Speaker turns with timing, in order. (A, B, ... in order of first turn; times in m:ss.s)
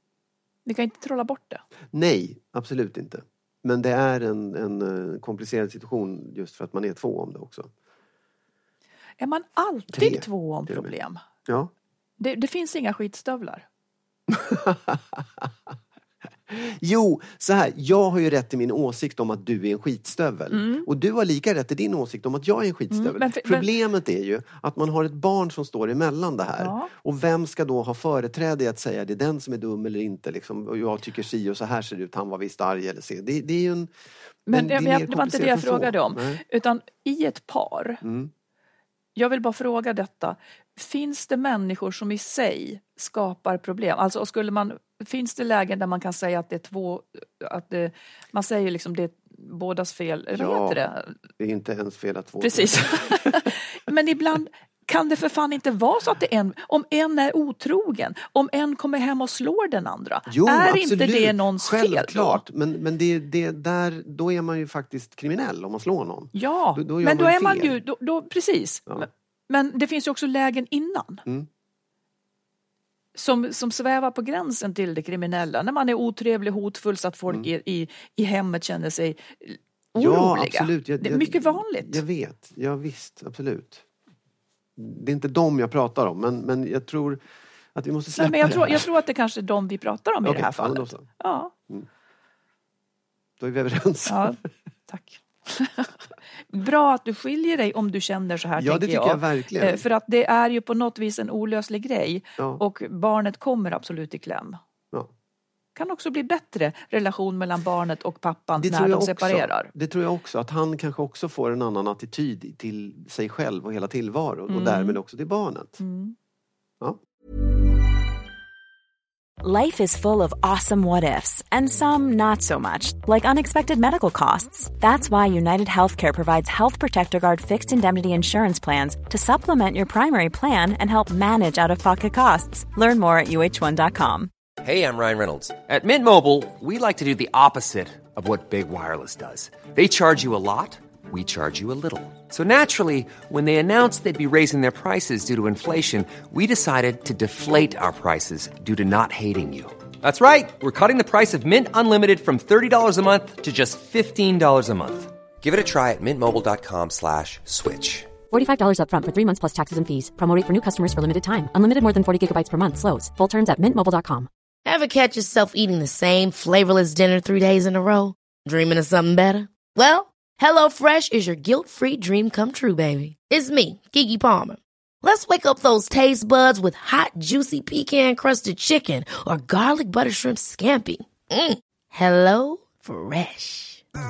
0:00.7-0:01.6 A
0:01.9-0:07.7 B
0:09.2-0:11.2 A
0:09.9-0:10.9 B
0:11.5-0:11.7 B
0:12.2-0:13.6 A
0:14.3-0:15.5 B
0:16.5-0:33.9 B
0:20.5-0:20.9 A
0:22.9-0:23.7 A
0:26.6-0:26.9 A
0:34.5-0:38.0 A
0:34.5-0:36.4 B
0:38.0-0:38.3 B
0:39.2-0:51.1 A
0:50.3-0:50.8 B
0:51.4-0:53.5 B
0:52.4-1:02.4 A
1:00.3-1:07.8 B
1:06.3-1:11.2 A
1:13.2-1:22.0 A
1:20.0-1:23.8 B
1:24.8-1:27.2 B
1:27.8-1:28.9 B
1:28.2-1:31.5 A
1:30.2-1:31.1 B
1:33.4-1:34.4 B
1:34.1-1:35.9 A
1:36.5-1:44.6 A
1:38.6-1:39.8 B
1:42.4-1:42.6 B
1:45.8-1:49.7 A
1:48.6-1:55.8 B
1:54.5-1:55.0 A
1:55.8-1:56.2 A
1:59.4-2:14.3 C
2:14.6-2:38.1 D
2:38.3-2:44.3 E
2:44.6-3:03.8 F